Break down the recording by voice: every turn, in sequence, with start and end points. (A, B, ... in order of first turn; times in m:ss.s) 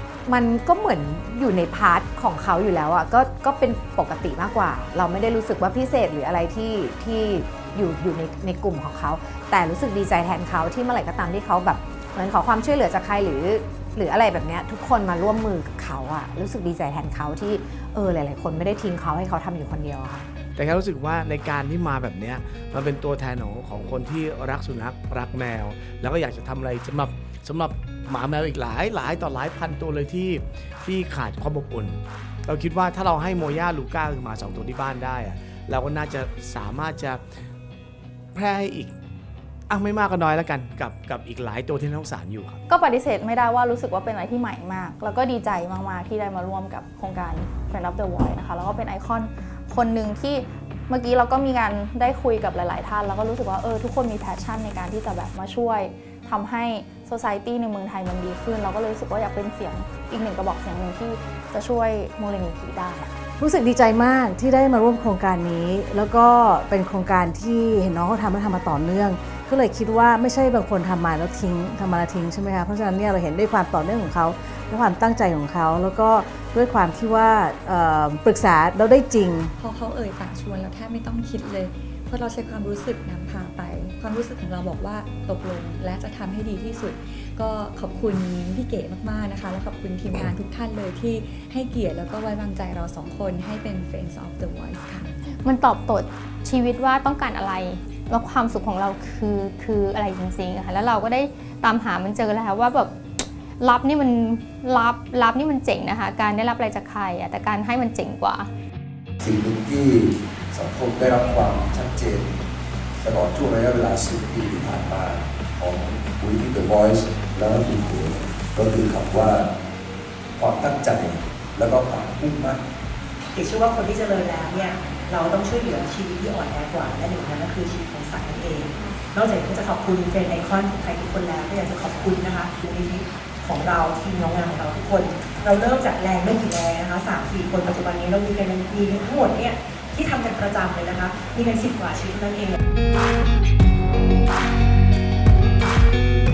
0:00.2-0:20.3 A
0:20.6-0:37.2 B
0:38.3-0:38.9 B
0:39.7-0:42.6 B
0:42.7-1:03.1 C
1:03.4-1:19.5 D
1:19.6-1:35.1 E
1:35.4-1:43.0 F
1:43.6-1:48.5 F
1:49.2-1:52.4 G
1:53.0-1:59.5 G
2:00.4-2:02.6 G
2:03.3-2:22.6 H